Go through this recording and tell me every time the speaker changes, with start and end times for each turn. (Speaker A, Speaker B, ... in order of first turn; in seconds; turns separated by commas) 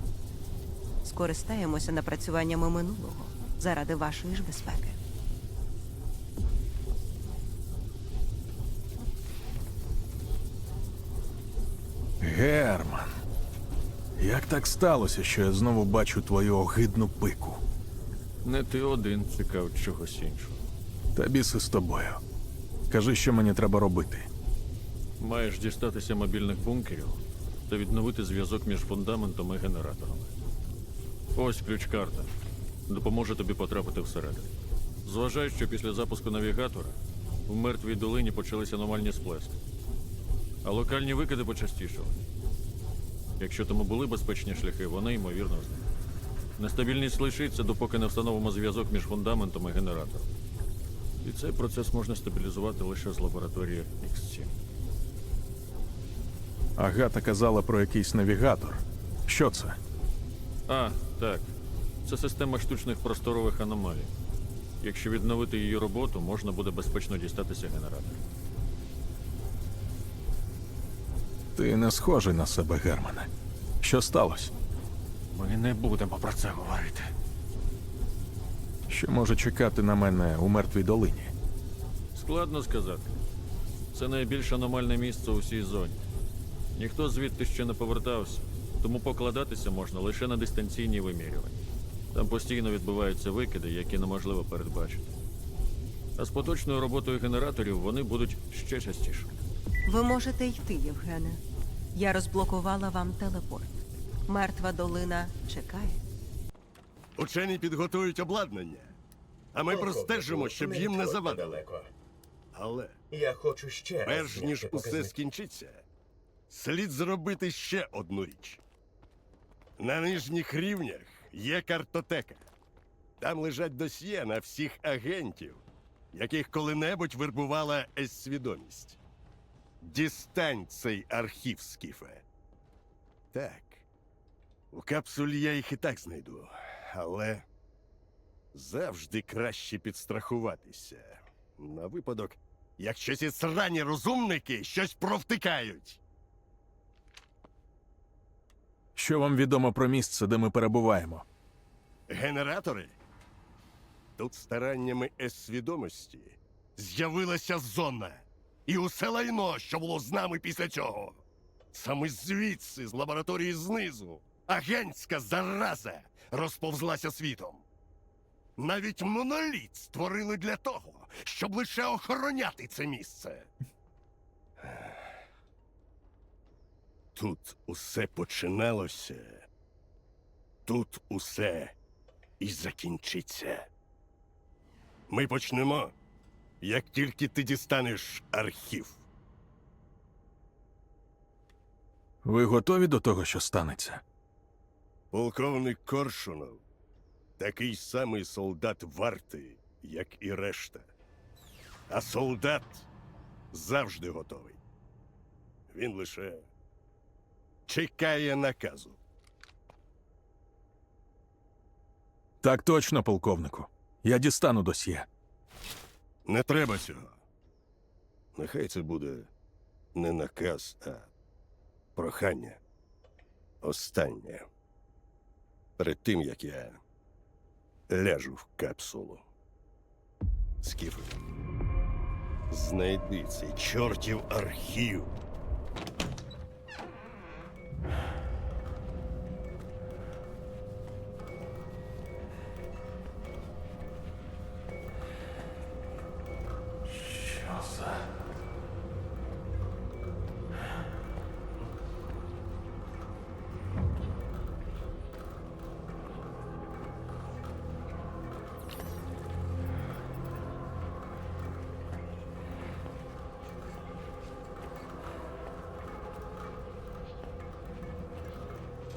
Speaker A: 1.0-5.0, Speaker B: 12.2-13.1, Speaker B: 14.2-17.6, Speaker C: 18.4-20.7, Speaker B: 21.1-22.2, Speaker B: 22.9-24.3, Speaker C: 25.2-30.3, Speaker C: 31.3-32.3, Speaker C: 32.9-34.5, Speaker C: 35.0-37.0, Speaker C: 37.5-39.6, Speaker C: 40.6-42.2, Speaker C: 43.4-45.8, Speaker C: 46.6-50.3, Speaker C: 51.2-54.5, Speaker B: 56.8-59.8, Speaker C: 60.7-61.5, Speaker C: 62.0-64.1, Speaker C: 64.8-68.2, Speaker B: 71.5-73.3, Speaker B: 73.8-74.5, Speaker C: 75.3-77.1, Speaker B: 78.9-81.3, Speaker C: 82.1-83.1, Speaker C: 83.9-86.0, Speaker C: 86.8-91.6, Speaker C: 92.1-95.1, Speaker C: 96.2-99.3, Speaker A: 99.9-101.4, Speaker A: 101.9-106.0, Speaker D: 107.2-108.9, Speaker D: 109.5-111.5, Speaker E: 109.7-111.9, Speaker D: 112.5-113.0, Speaker E: 113.1-115.1, Speaker D: 114.0-115.8, Speaker D: 116.5-118.6, Speaker D: 119.8-122.4, Speaker D: 123.2-129.0, Speaker D: 129.8-132.2, Speaker D: 133.3-133.8, Speaker D: 134.7-137.4, Speaker D: 138.5-146.0, Speaker B: 148.9-151.3, Speaker D: 152.1-152.9, Speaker D: 154.2-161.2, Speaker D: 161.7-167.6, Speaker D: 168.6-173.5, Speaker D: 177.1-179.4, Speaker D: 180.7-181.7, Speaker D: 182.4-183.7, Speaker D: 185.1-185.9, Speaker D: 186.6-189.0, Speaker B: 192.2-194.0, Speaker D: 195.1-196.6, Speaker D: 197.4-200.9, Speaker D: 201.9-202.9, Speaker D: 203.5-204.6, Speaker D: 205.7-206.4, Speaker D: 207.7-209.0, Speaker B: 212.4-215.1, Speaker D: 216.2-217.2, Speaker D: 218.3-219.3, Speaker D: 219.9-221.1, Speaker D: 221.9-222.6, Speaker D: 223.6-224.4, Speaker D: 225.8-226.8, Speaker D: 227.9-229.2, Speaker D: 230.6-231.2, Speaker D: 232.5-235.1, Speaker B: 246.8-248.0